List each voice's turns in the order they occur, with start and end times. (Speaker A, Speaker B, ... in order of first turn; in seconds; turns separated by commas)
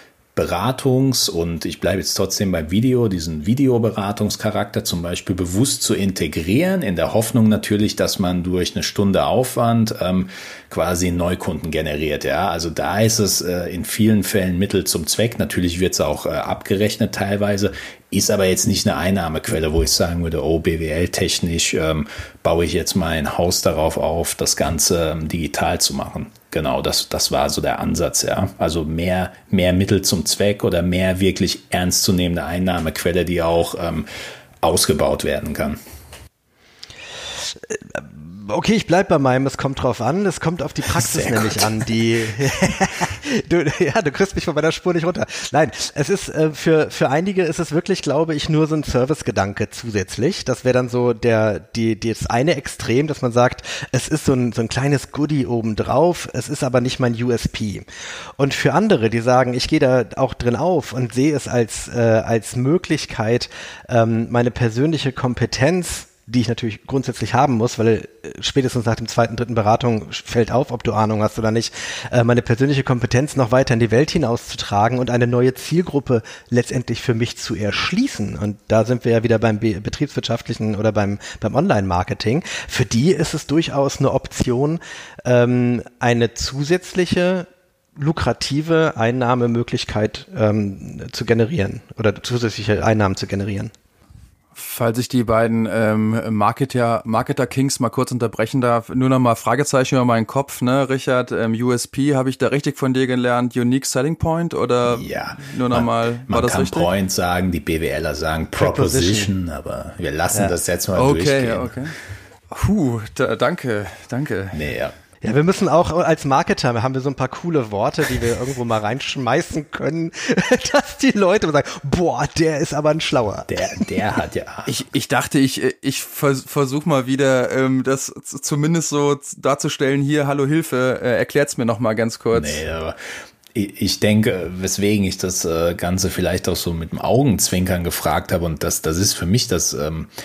Speaker A: 0.3-34.1, Speaker A: 34.6-35.8, Speaker B: 37.6-57.9, Speaker A: 41.0-41.8, Speaker B: 58.4-93.7, Speaker C: 94.6-106.9, Speaker A: 104.9-111.9, Speaker B: 108.6-109.3, Speaker C: 111.0-112.0, Speaker C: 112.5-114.6, Speaker A: 114.5-115.0, Speaker B: 115.2-123.5, Speaker A: 123.5-124.9, Speaker C: 124.7-132.6, Speaker A: 132.3-133.0, Speaker A: 133.5-140.1